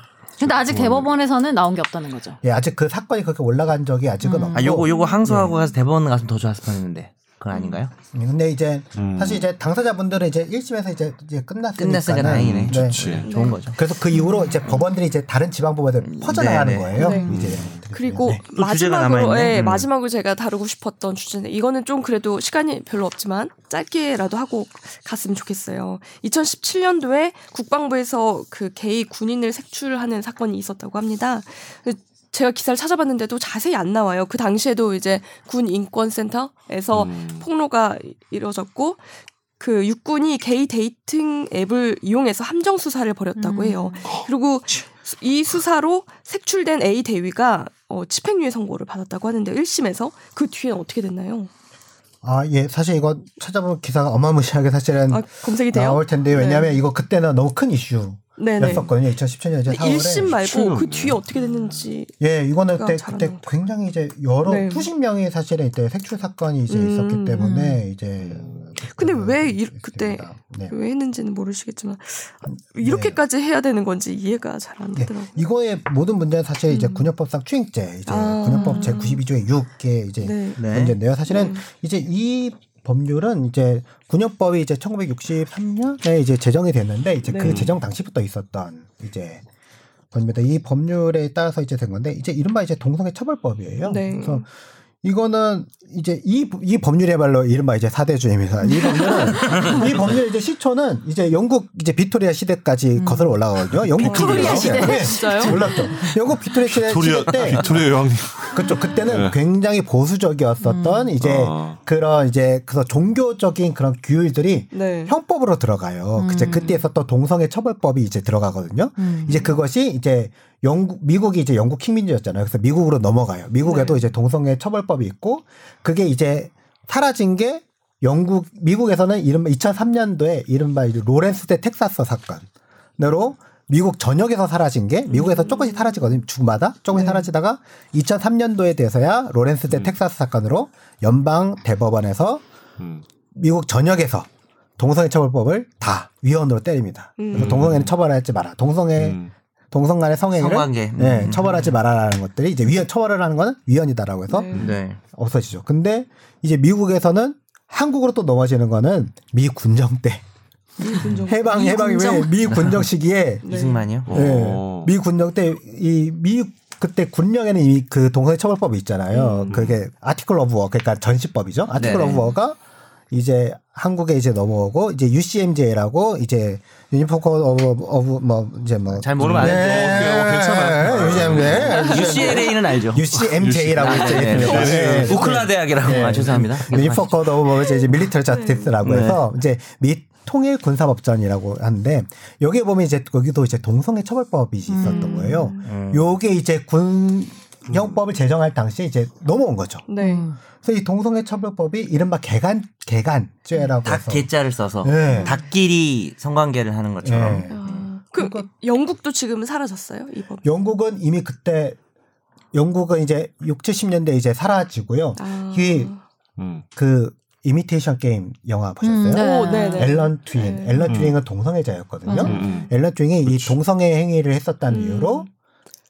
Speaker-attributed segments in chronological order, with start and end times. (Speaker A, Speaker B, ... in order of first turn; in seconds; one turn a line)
Speaker A: 0.4-2.4
Speaker B: 0.4-1.1
Speaker C: 2.4-5.5
Speaker A: 4.2-4.8
Speaker D: 4.5-7.9
Speaker E: 4.9-5.7
Speaker E: 7.5-7.8
Speaker C: 8.1-18.4
Speaker B: 8.9-9.5
Speaker D: 11.8-13.8
Speaker B: 12.2-13.3
Speaker E: 13.2-13.6
Speaker A: 14.1-14.6
Speaker D: 16.1-17.2
Speaker E: 16.9-39.0
Speaker B: 17.3-17.8
Speaker D: 18.5-19.7
Speaker B: 19.5-19.9
Speaker B: 36.9-37.5
Speaker E: 39.6-51.5
Speaker A: 43.4-44.1
Speaker C: 52.2-60.4
Speaker E: 55.1-56.8
Speaker E: 58.4-58.9
Speaker E: 59.6-62.2
Speaker B: 60.4-61.9
Speaker C: 62.2-70.7
Speaker E: 62.7-63.4
Speaker E: 64.4-64.9
Speaker E: 66.7-67.5
Speaker A: 67.4-67.8
Speaker B: 68.2-68.7
Speaker E: 68.9-75.4
Speaker C: 72.5-73.2
Speaker C: 74.9-89.4
Speaker E: 76.7-77.1
Speaker E: 78.1-79.2
Speaker A: 78.5-78.9
Speaker E: 80.2-80.6
Speaker D: 80.6-81.0
Speaker E: 81.2-81.6
Speaker E: 87.2-87.6
Speaker B: 87.4-87.7
Speaker C: 90.1-94.5
Speaker E: 93.8-94.4
Speaker C: 95.0-107.9
Speaker A: 98.6-99.7
Speaker D: 99.3-100.2
Speaker A: 103.0-103.4
Speaker A: 103.9-106.1
Speaker B: 104.0-104.6
Speaker E: 104.0-106.1
Speaker B: 106.5-109.4
Speaker C: 108.5-132.4
Speaker A: 110.6-111.1
Speaker B: 111.2-111.8
Speaker E: 114.7-115.1
Speaker A: 116.2-116.8
Speaker A: 119.0-119.5
Speaker E: 123.6-124.0
Speaker C: 133.0-142.4
Speaker E: 135.1-136.1
Speaker E: 136.9-137.2
Speaker B: 142.8-143.0
Speaker C: 143.3-149.2
Speaker E: 147.2-147.7
Speaker B: 147.3-147.9
Speaker B: 148.9-149.3
Speaker C: 149.7-154.5
Speaker D: 150.3-151.8
Speaker E: 154.3-154.7
Speaker D: 154.5-155.0
Speaker C: 155.1-160.2
Speaker E: 160.8-162.2
Speaker C: 161.1-172.6
Speaker A: 161.5-162.3
Speaker D: 162.4-162.8
Speaker E: 163.4-163.9
Speaker D: 163.4-164.1
Speaker B: 164.1-164.9
Speaker E: 169.1-169.6
Speaker B: 169.5-169.8
Speaker D: 171.8-172.2
Speaker E: 171.9-172.2
Speaker C: 173.1-199.8
Speaker D: 178.9-180.2
Speaker B: 179.2-182.5
Speaker D: 181.1-187.3
Speaker E: 181.7-182.3
Speaker B: 183.1-185.4
Speaker E: 187.7-188.7
Speaker D: 188.8-189.2
Speaker A: 194.7-195.5
Speaker E: 194.8-195.7
Speaker D: 195.6-196.1
Speaker B: 197.7-198.0
Speaker E: 199.9-200.3
Speaker A: 200.0-200.4
Speaker C: 200.6-204.3
Speaker D: 203.8-207.9
Speaker C: 204.8-205.4
Speaker C: 207.0-208.5
Speaker E: 207.5-210.5
Speaker C: 210.4-211.8
Speaker C: 212.5-215.9
Speaker E: 215.2-216.0
Speaker B: 216.4-216.6
Speaker C: 216.8-225.3
Speaker A: 218.8-220.0
Speaker E: 219.2-221.0
Speaker B: 220.8-221.2
Speaker E: 222.1-222.7
Speaker A: 222.1-222.3
Speaker B: 222.2-222.7
Speaker B: 223.2-223.6
Speaker E: 224.7-225.3